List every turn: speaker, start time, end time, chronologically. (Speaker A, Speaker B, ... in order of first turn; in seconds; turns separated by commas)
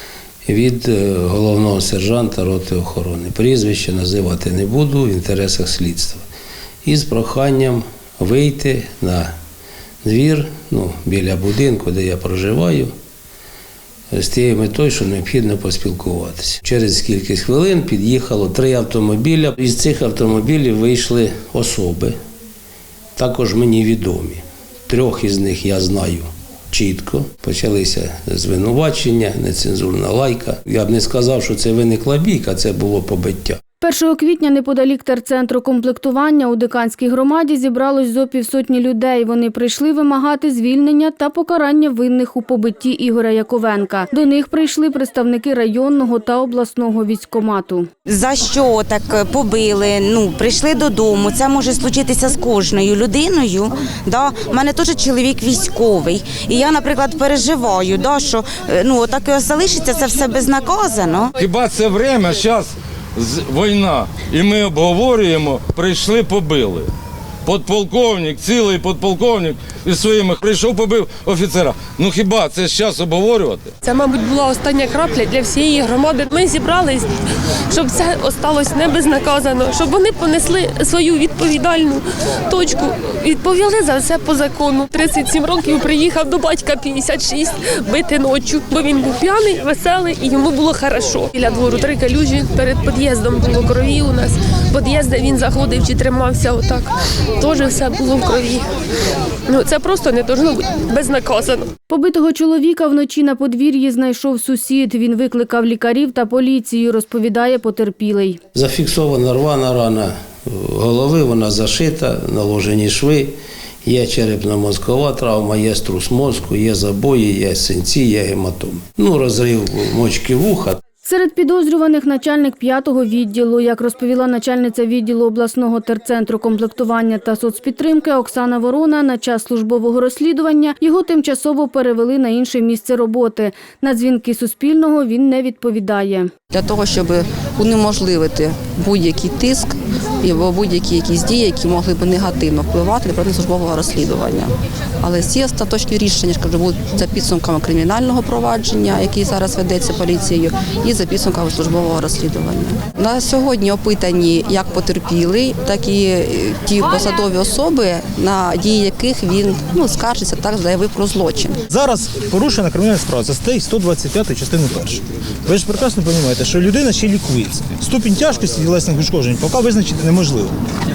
Speaker A: 0.4-6.2, Speaker A: 6.8-9.3, Speaker A: 10.0-12.9, Speaker A: 14.1-22.1, Speaker A: 23.1-33.6, Speaker B: 33.8-47.9, Speaker C: 48.1-61.3, Speaker D: 61.4-66.9, Speaker D: 67.4-73.7, Speaker E: 73.8-77.1, Speaker E: 77.7-98.7, Speaker E: 99.5-101.7, Speaker B: 101.9-108.4, Speaker A: 108.5-120.8, Speaker B: 121.0-136.3, Speaker F: 136.5-161.6, Speaker G: 161.7-170.5